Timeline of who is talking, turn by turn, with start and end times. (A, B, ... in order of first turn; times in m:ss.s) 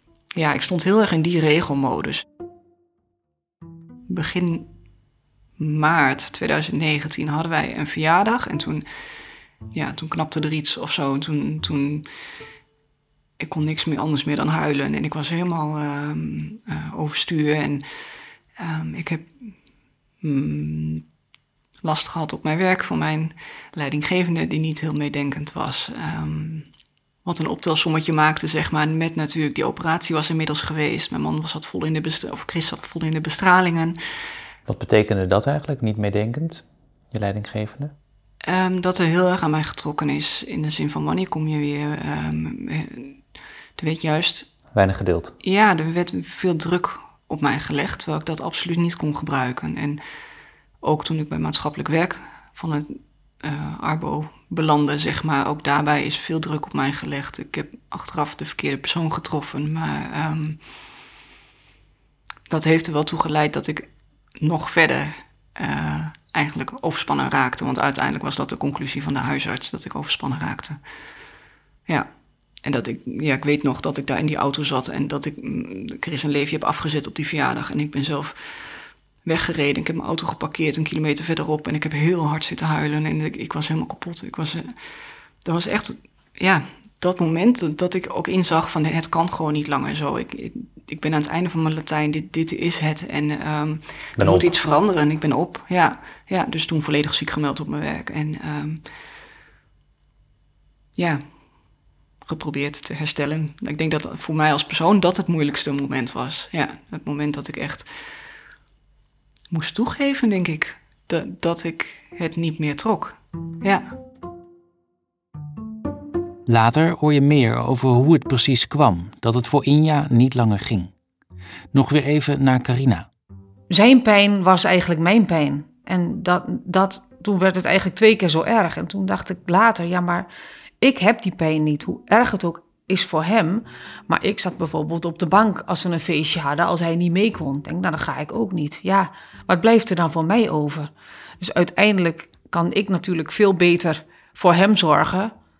0:00.4-0:02.2 A
0:04.1-0:04.7 A
0:05.6-0:08.9 A
0:09.7-0:12.1 A
0:13.4-0:19.6 A
0:20.2-0:21.1 A
0:21.8-0:26.7 A
0:27.2-0:34.0 A
0:34.7-0:37.9 B
0:38.4-0:43.2 A
0:43.8-0:44.5 A
0:44.7-0:45.3 B
0:45.4-0:50.0 A
0:50.8-1:00.7 A
1:02.5-1:10.8 A
1:11.9-1:38.8 A
1:34.2-1:34.5 B
1:41.0-1:41.4 A
1:42.2-1:47.9 A
1:49.5-1:53.8 A
1:56.5-2:00.9 B
2:01.7-2:03.1 B
2:03.7-2:10.3 C
2:10.8-2:20.9 C
2:21.4-2:25.3 C